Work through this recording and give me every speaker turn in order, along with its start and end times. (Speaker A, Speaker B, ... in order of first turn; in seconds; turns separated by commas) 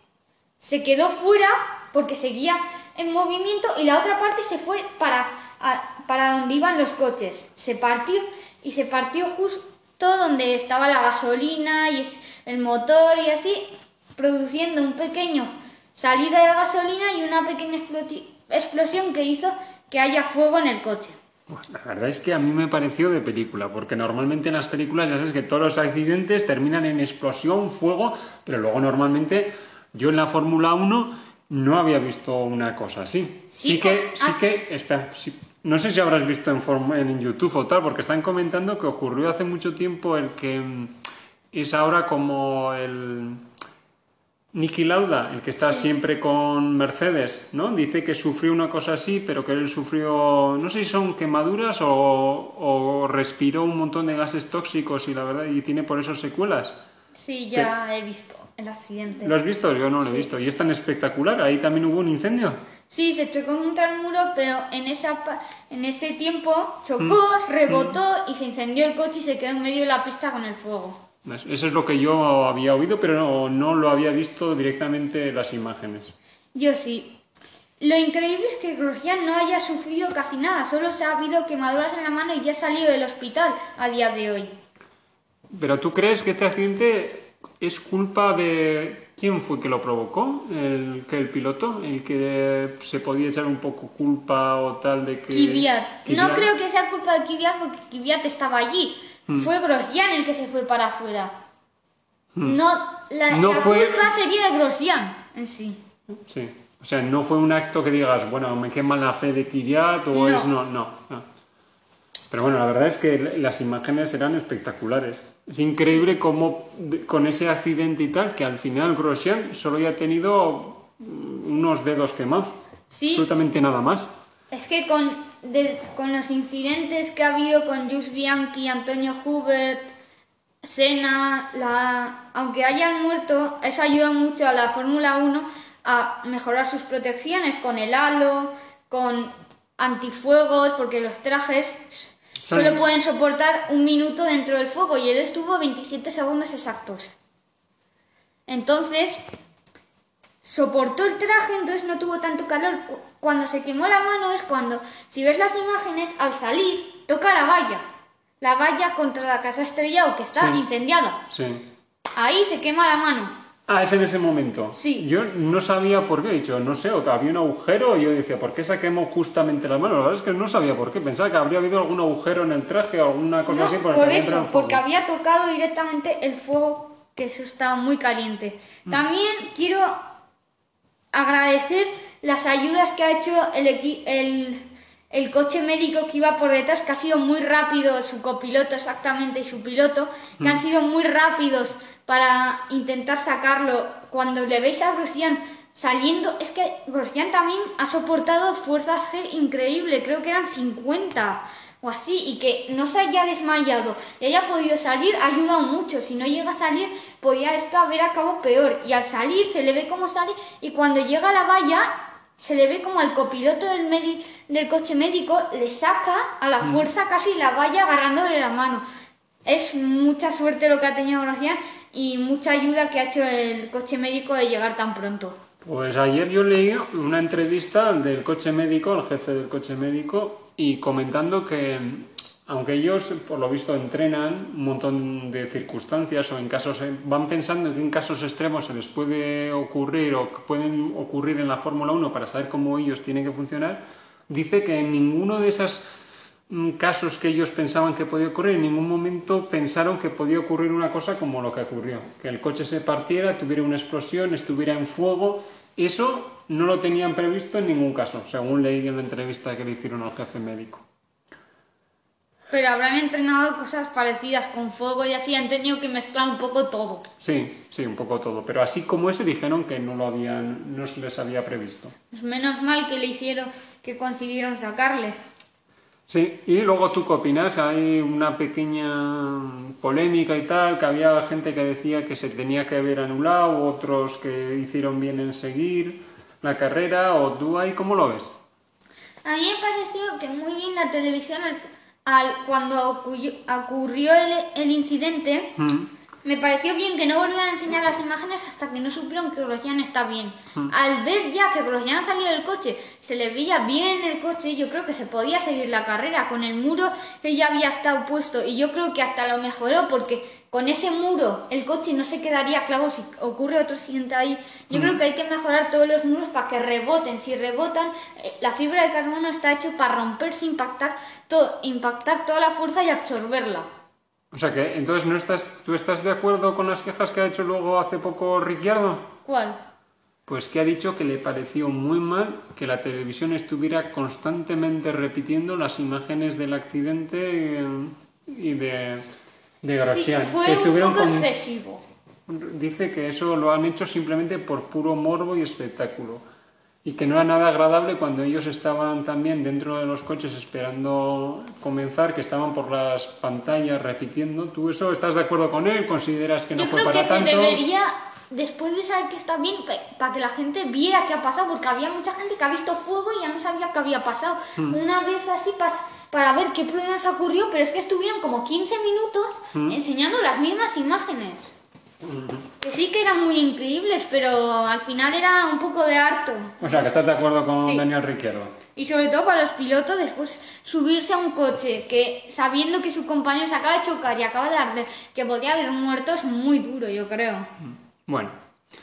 Speaker A: 0.6-21.2, Speaker B: 21.5-41.0, Speaker A: 33.5-34.4, Speaker B: 41.5-43.5, Speaker B: 44.5-56.7, Speaker A: 57.2-59.4, Speaker B: 59.2-62.6, Speaker A: 62.9-71.0, Speaker B: 67.0-67.9, Speaker B: 71.2-76.1, Speaker A: 76.5-77.2, Speaker A: 77.8-84.5, Speaker B: 85.5-96.5, Speaker A: 95.3-101.3, Speaker A: 102.4-105.8, Speaker B: 103.3-104.1, Speaker B: 106.2-111.3, Speaker A: 110.1-110.5, Speaker B: 112.3-122.6, Speaker A: 122.9-123.3, Speaker B: 123.1-124.1, Speaker A: 124.5-129.9, Speaker A: 130.6-147.1, Speaker B: 142.4-142.8, Speaker A: 148.5-149.2, Speaker A: 150.4-157.8, Speaker A: 158.4-161.2, Speaker B: 161.3-161.7, Speaker A: 162.2-163.3, Speaker B: 163.7-174.8, Speaker A: 164.8-165.1, Speaker A: 173.5-179.9, Speaker A: 181.1-218.8, Speaker A: 219.4-225.4, Speaker B: 225.6-245.8, Speaker B: 246.5-260.8, Speaker A: 262.5-267.1, Speaker B: 267.2-271.9, Speaker A: 272.1-275.2, Speaker B: 276.1-288.3, Speaker A: 289.2-295.6, Speaker B: 295.6-295.9, Speaker A: 296.2-323.7, Speaker B: 314.7-315.0, Speaker B: 324.3-329.1, Speaker A: 329.3-329.6, Speaker B: 330.3-339.1, Speaker B: 339.6-341.3, Speaker A: 339.8-341.8, Speaker B: 342.3-346.2, Speaker B: 346.8-357.6, Speaker A: 356.6-371.5, Speaker B: 372.0-372.5, Speaker A: 372.6-376.6, Speaker B: 376.6-378.6, Speaker A: 378.8-387.5, Speaker B: 387.7-388.4